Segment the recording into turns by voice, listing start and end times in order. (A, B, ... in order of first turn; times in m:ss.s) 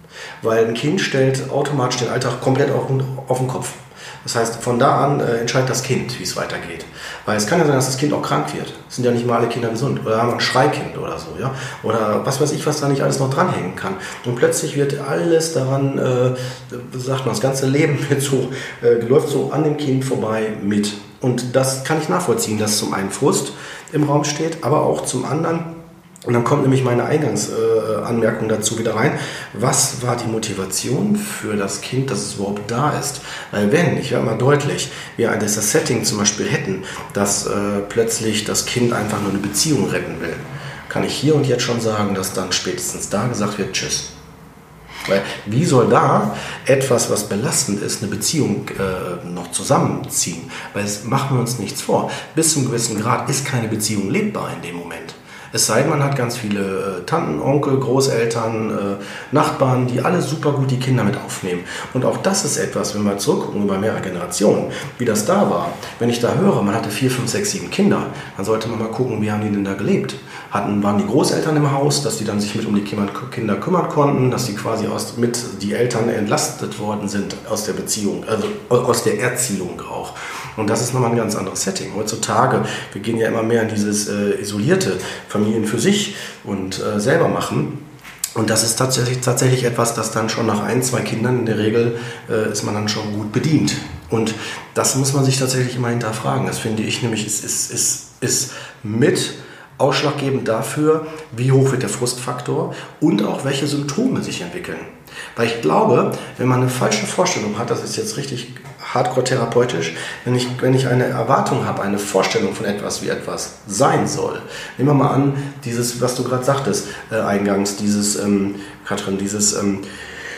0:00.4-0:25.7 A
0:26.3-0:44.1 A
0:45.0-1:27.8 A
1:28.3-1:59.8 A